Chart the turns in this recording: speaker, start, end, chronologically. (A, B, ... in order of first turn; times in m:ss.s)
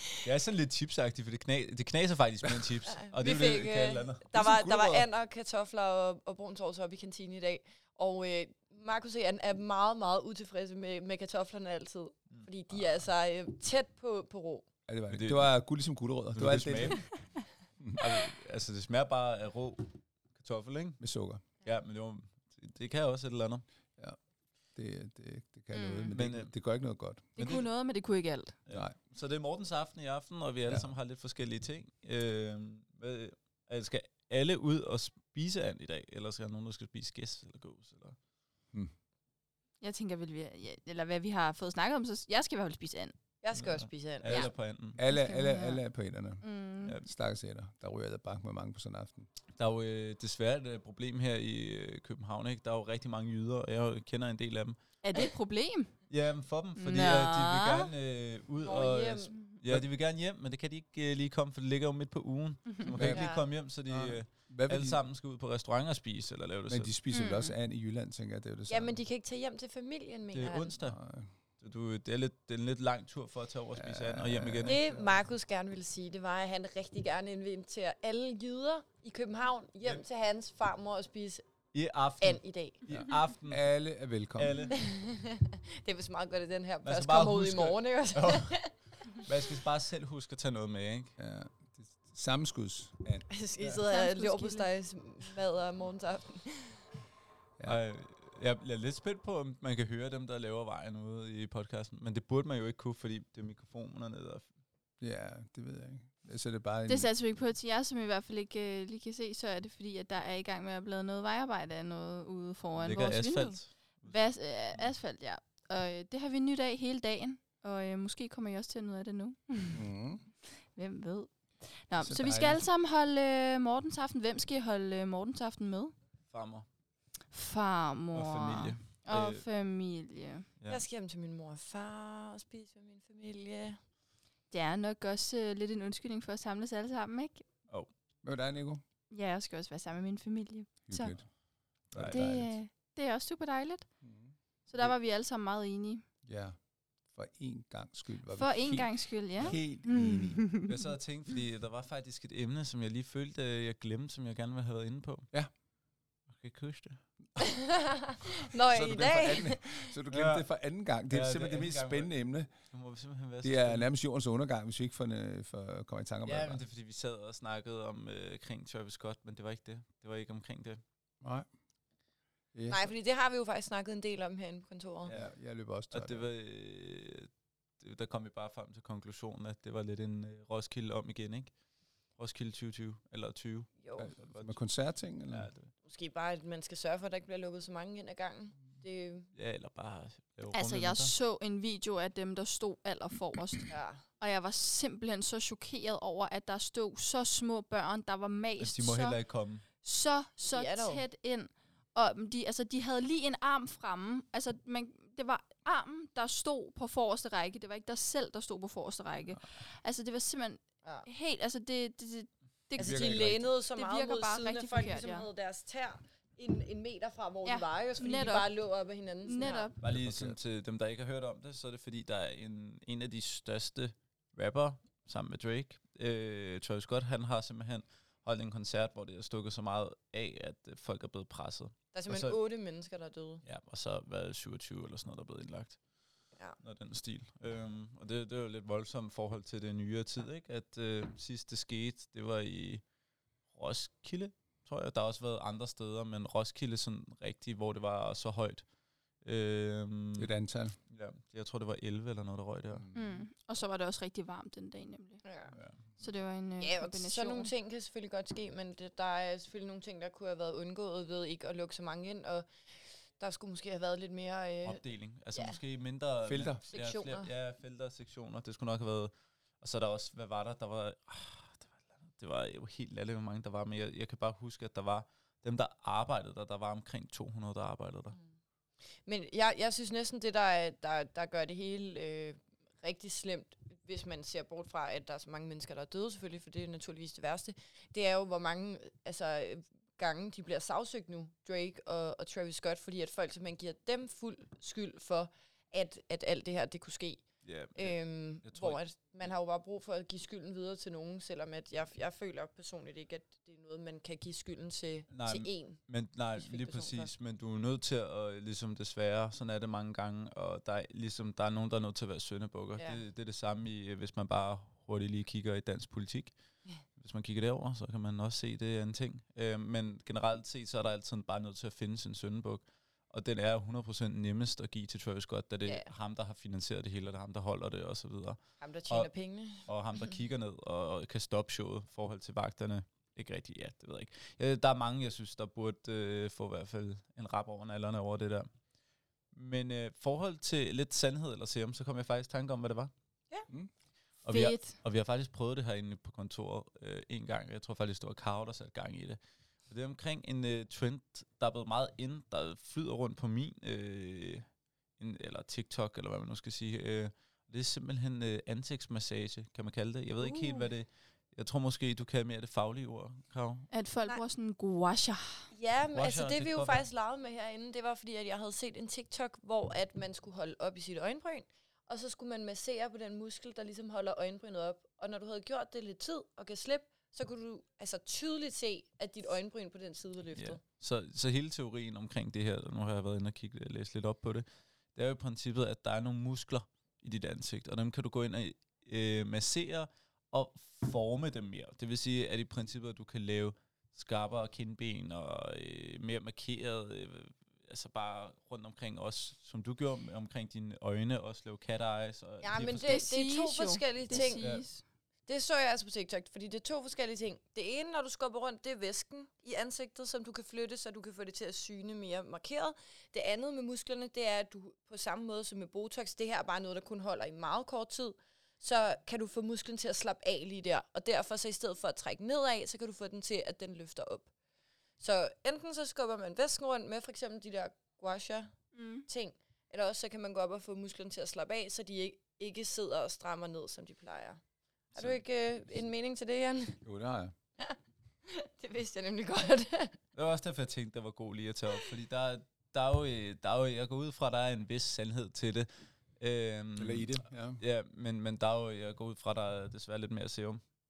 0:00.2-0:04.3 A
0:02.9-0:14.7 B
0:04.3-0:05.1 C
0:14.9-0:17.1 C
0:15.1-0:15.6 A
0:16.3-0:17.3 A
0:17.8-0:18.1 C
0:18.0-0:21.0 A
0:21.0-0:21.4 C
0:21.6-0:23.6 A
0:24.8-0:27.3 C
0:26.1-0:26.5 A
0:27.4-0:27.7 A
0:27.4-0:28.6 D
0:28.7-0:38.2 A
0:39.8-0:43.2 D
0:43.4-0:44.5 B
0:43.5-0:45.0 A
0:45.0-0:46.4 C
0:45.1-0:45.8 D
0:46.4-0:47.0 D
0:47.0-0:49.3 C
0:49.6-0:54.8 A
0:55.0-0:55.9 D
0:56.1-1:06.9 A
0:56.8-0:57.9 D
0:58.6-0:59.4 B
1:02.9-1:05.0 C
1:03.1-1:03.4 B
1:06.7-1:09.0 C
1:07.1-1:07.5 D
1:08.7-1:10.8 B
1:10.3-1:11.0 A
1:10.8-1:11.3 C
1:11.6-1:14.8 A
1:13.8-1:15.2 C
1:14.6-1:21.4 B
1:21.7-1:23.6 A
1:22.2-1:22.8 B
1:22.9-1:24.6 C
1:24.4-1:24.9 A
1:24.7-1:29.3 B
1:26.8-1:31.2 A
1:31.2-1:33.3 C
1:33.3-1:36.8 B
1:33.9-1:34.7 D
1:37.6-1:44.5 A
1:45.0-1:47.1 C
1:46.9-1:59.8 D
1:52.8-1:54.1 A
1:59.7-2:00.2 C
2:00.6-2:05.9 D
2:02.0-2:02.6 C
2:06.3-2:06.7 A
2:07.3-2:10.5 D
2:08.1-2:09.4 A
2:10.7-2:13.8 B
2:14.5-2:17.5 D
2:18.2-2:18.8 C
2:19.1-2:21.2 D
2:20.9-2:21.3 C
2:21.9-2:22.6 C
2:21.9-2:22.4 A
2:22.0-2:23.9 D
2:24.0-2:24.9 C
2:24.7-2:26.0 D
2:26.2-2:30.6 C
2:28.3-2:30.7 D
2:30.6-2:35.3 A
2:36.3-2:37.0 A
2:37.4-2:39.9 B
2:38.7-2:42.5 C
2:40.1-2:40.4 A
2:41.1-2:42.1 A
2:42.7-2:43.9 A
2:43.4-2:46.6 C
2:46.2-2:50.8 A
2:51.2-2:51.5 C
2:52.5-2:52.9 C
2:52.7-2:55.1 B
2:55.1-2:55.3 A
2:55.1-2:56.2 C
2:55.9-3:01.5 A
3:02.2-3:05.7 A
3:03.8-3:04.1 B
3:04.0-3:05.5 C
3:05.8-3:09.3 B
3:09.4-3:11.1 A
3:10.5-3:19.2 D
3:13.7-3:14.0 B
3:18.6-3:19.6 A
3:19.8-3:35.3 D
3:20.4-3:21.0 B
3:32.8-3:39.7 B
3:32.8-3:33.5 C
3:37.4-3:38.5 D
3:39.3-3:39.8 D
3:39.8-3:52.4 A
3:39.8-3:40.4 C
3:51.9-3:53.4 B
3:53.4-3:55.8 A
3:56.6-4:02.8 A
4:03.5-4:08.6 A
4:09.2-4:10.3 A
4:10.2-4:10.8 C
4:10.9-4:12.8 A
4:12.7-4:13.2 C
4:13.0-4:15.2 D
4:15.2-4:15.6 B
4:15.5-4:15.8 A
4:16.0-4:17.5 D
4:16.6-4:24.8 B
4:24.6-4:38.2 A
4:26.2-4:26.6 C
4:26.7-4:27.3 B
4:39.0-5:05.8 B
4:57.4-4:58.8 A
5:05.1-5:16.4 A
5:06.4-5:07.1 B
5:17.0-5:38.5 A
5:28.6-5:29.7 B
5:39.3-5:42.9 A
5:44.2-5:54.5 A
5:44.3-5:44.8 D
5:55.0-6:03.7 A
6:00.2-6:00.7 B
6:03.7-6:05.5 D
6:05.5-6:20.6 B
6:05.9-6:06.8 A
6:20.4-6:43.1 A
6:42.4-6:44.6 B
6:42.8-6:44.8 D
6:44.1-6:44.7 A
6:45.3-7:04.3 B
7:05.0-7:14.4 B
7:08.8-7:09.1 D
7:15.0-7:16.8 B
7:16.8-7:17.3 C
7:17.6-7:20.0 B
7:20.2-7:30.6 A
7:26.8-7:27.6 C